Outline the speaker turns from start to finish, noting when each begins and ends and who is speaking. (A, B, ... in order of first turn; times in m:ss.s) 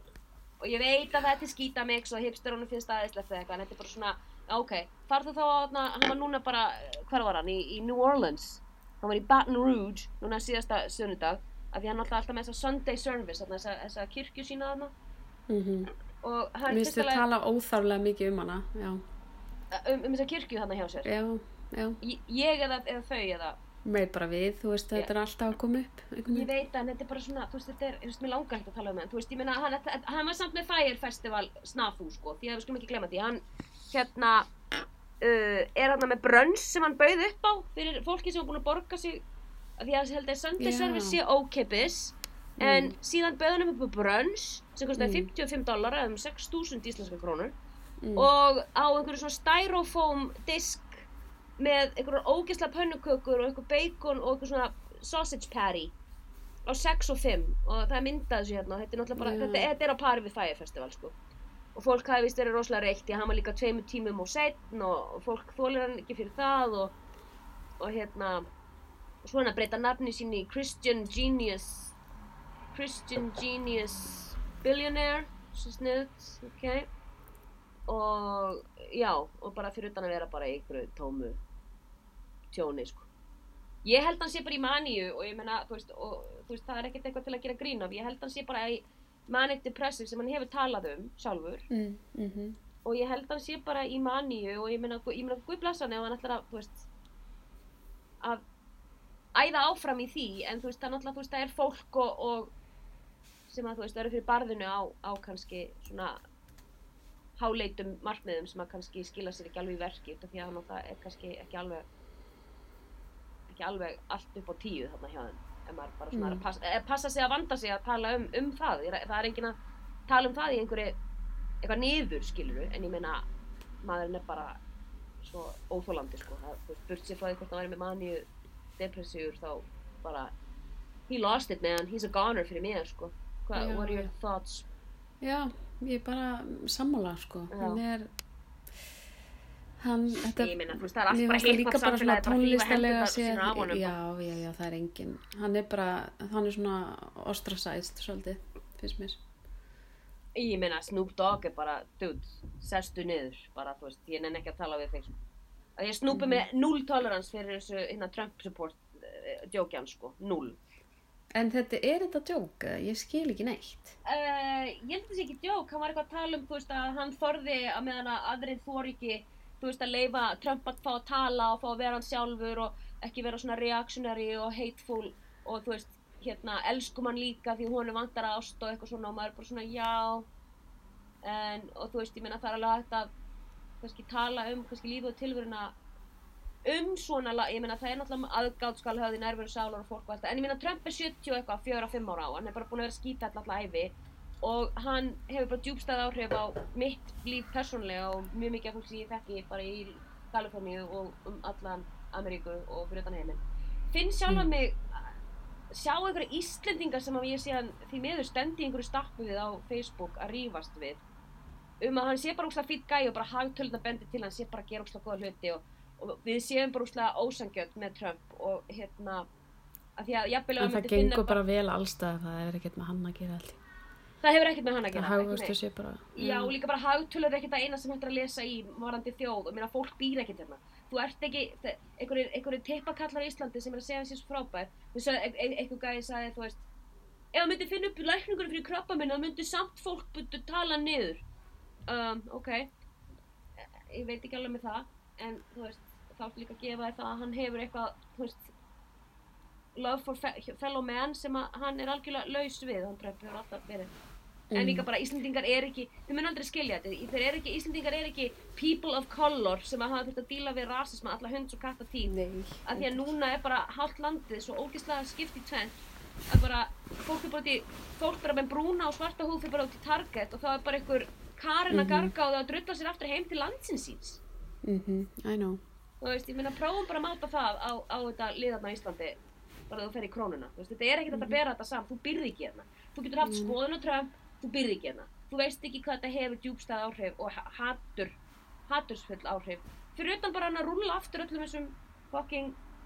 0:00.6-0:14.9 A
0:15.5-0:15.9 B
0:16.2-0:17.2 A
0:16.7-0:19.0 B
0:19.7-0:21.1 A
0:21.0-0:22.0 B
0:22.0-0:23.6 A
0:23.8-0:26.5 B
0:26.3-0:34.5 A
0:35.2-0:39.2 A
0:39.8-0:47.5 A
0:40.6-0:41.2 B
0:42.6-0:42.9 B
0:45.0-0:45.3 B
0:48.0-0:48.3 B
0:48.2-0:51.0 A
0:51.6-0:55.9 A
0:56.7-1:01.1 A
0:59.2-0:59.7 B
1:01.8-1:06.9 A
1:07.8-1:08.5 A
1:09.2-1:11.9 A
1:12.7-1:16.9 A
1:17.9-1:21.4 A
1:22.5-1:23.1 A
1:23.8-1:31.7 A
1:31.7-1:32.6 B
1:32.8-1:36.9 A
1:39.3-1:42.5 A
1:43.5-1:46.2 A
1:47.4-1:51.8 A
1:53.5-1:59.6 A
1:56.1-1:56.4 B
2:00.1-2:01.0 A
2:01.6-2:03.2 A
2:03.8-2:04.6 A
2:05.2-2:08.3 A
2:08.8-2:10.3 A
2:11.1-2:14.7 A
2:13.6-2:14.1 B
2:15.2-2:18.1 B
2:17.5-2:17.8 A
2:19.8-2:29.2 B
2:20.4-2:24.0 A
2:30.4-2:35.1 A
2:35.8-2:40.6 A
2:36.1-2:36.4 B
2:41.3-2:44.0 B
2:44.0-3:00.3 A
3:01.2-3:03.1 A
3:03.8-3:05.7 A
3:06.6-3:25.1 A
3:25.7-3:31.0 A
3:31.8-3:39.3 A
3:40.0-3:41.4 A
3:40.6-3:43.6 B
3:44.2-3:45.6 A
3:44.9-3:46.5 B
3:46.2-3:56.6 A
3:57.3-4:01.2 A
4:01.9-4:02.7 A
4:03.6-4:08.5 A
4:09.7-4:13.9 A
4:14.5-4:14.9 B
4:14.5-4:34.2 A
4:22.1-4:23.1 B
4:31.7-4:32.1 B
4:34.6-4:35.6 B
4:36.0-4:39.2 A
4:39.7-4:48.2 A
4:41.1-4:41.4 B
4:43.2-4:43.5 B
4:48.7-4:52.6 A